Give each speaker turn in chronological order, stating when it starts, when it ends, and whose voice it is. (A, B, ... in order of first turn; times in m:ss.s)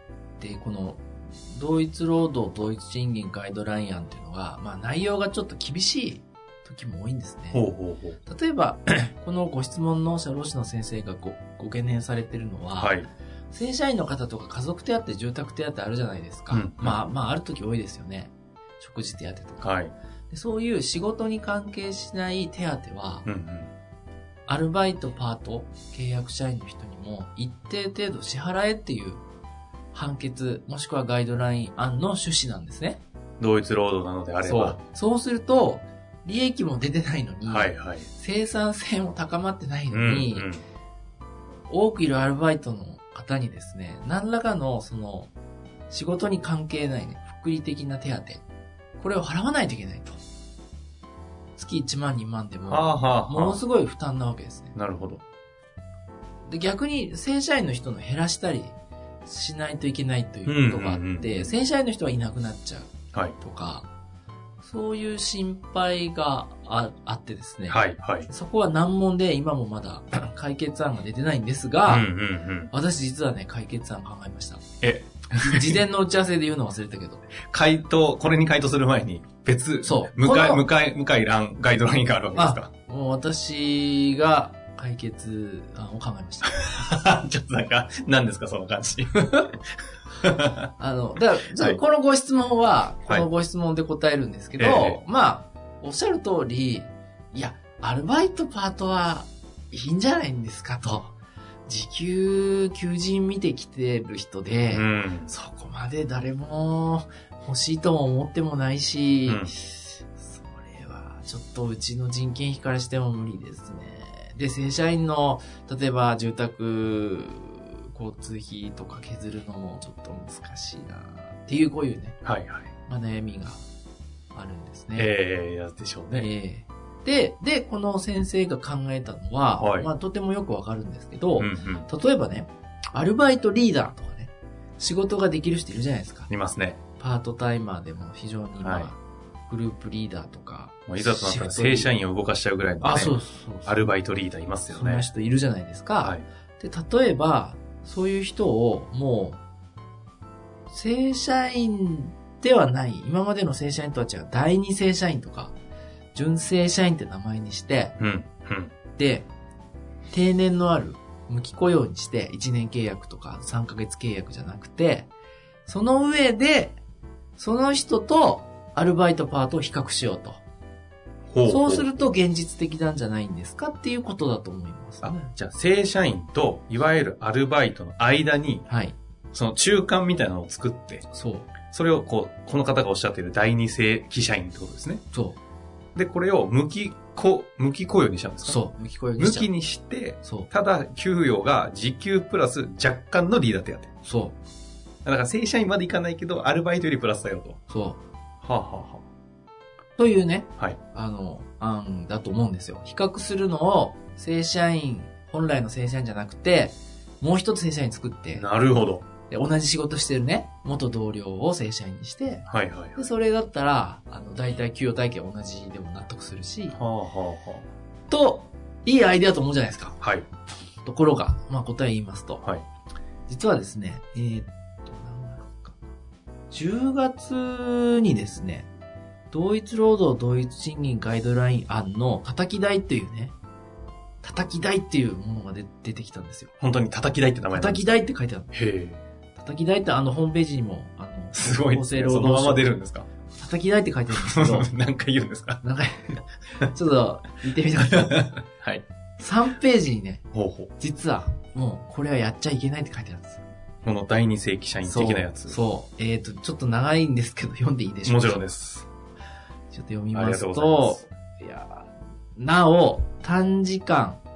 0:00.4-0:07.7 A
0:07.5-0:08.2 B
0:08.2-0:19.7 A
0:12.8-0:13.1 B
0:16.5-0:17.0 B
0:19.6-0:19.9 B
0:20.3-0:23.2 A
0:23.2-0:23.7 B
0:24.5-0:29.2 A
0:29.9-0:33.0 A
0:33.4-0:34.8 B
0:34.4-0:40.5 A
0:37.4-0:38.1 B
0:39.9-0:40.6 B
0:41.7-0:45.3 A
0:45.9-0:48.4 A
0:49.0-0:50.2 A
0:51.6-0:54.7 A
0:52.7-0:53.6 B
0:54.7-0:55.2 B
0:56.4-1:03.9 A
1:00.4-1:01.5 B
1:04.6-1:12.1 A
1:07.7-1:08.3 B
1:11.8-1:12.7 B
1:12.7-1:14.6 A
1:14.8-1:15.8 B
1:15.4-1:17.3 A
1:17.5-1:22.7 B
1:19.8-1:20.6 A
1:22.3-1:26.6 A
1:26.4-1:29.6 B
1:30.2-1:30.7 B
1:30.8-1:41.1 A
1:34.6-1:35.0 B
1:41.7-2:02.2 A
1:44.7-1:45.3 B
1:49.2-1:49.5 B
2:02.2-2:02.7 B
2:02.8-2:03.6 A
2:04.3-2:05.1 A
2:05.0-2:06.3 B
2:06.1-2:16.3 A
2:09.6-2:09.9 B
2:11.4-2:11.9 B
2:16.3-2:16.8 B
2:17.0-2:21.9 A
2:18.6-2:18.9 B
2:20.9-2:25.1 B
2:22.8-2:23.9 A
2:24.7-2:29.4 A
2:26.0-2:26.2 B
2:30.7-2:35.5 A
2:36.1-2:37.9 A
2:38.0-2:38.7 B
2:39.0-2:39.3 A
2:40.1-2:45.1 A
2:45.6-2:46.8 A
2:47.4-2:50.4 A
2:51.3-2:51.9 B
2:51.5-2:55.3 A
2:55.0-2:58.6 B
2:58.7-2:59.0 A
2:59.3-3:01.0 B
3:01.1-3:01.5 A
3:01.7-3:05.0 B
3:05.1-3:05.4 A
3:05.9-3:08.6 B
3:08.4-3:09.5 A
3:09.2-3:13.9 B
3:10.2-3:10.5 A
3:14.0-3:14.4 A
3:15.0-3:17.6 B
3:17.7-3:18.0 A
3:18.4-3:19.0 B
3:20.0-3:28.4 A
3:28.3-3:29.0 B
3:29.3-3:36.8 A
3:32.5-3:33.0 B
3:36.7-3:37.7 B
3:38.1-3:40.0 A
3:40.0-3:40.3 B
3:40.8-3:42.4 A
3:43.3-3:45.8 A
3:46.5-3:48.7 A
3:49.3-3:53.3 A
3:54.2-3:56.5 A
3:56.6-3:57.9 B
3:57.5-3:58.5 A
3:58.5-3:59.0 B
3:59.3-4:02.7 A
4:01.3-4:03.1 B
4:03.3-4:04.7 A
4:04.2-4:05.6 B
4:05.6-4:08.4 A
4:08.0-4:08.8 B
4:09.2-4:10.2 A
4:10.3-4:10.7 B
4:10.8-4:13.4 A
4:13.8-4:15.6 B
4:14.8-4:18.4 A
4:18.0-4:18.9 B
4:19.7-4:24.2 A
4:20.1-4:21.0 B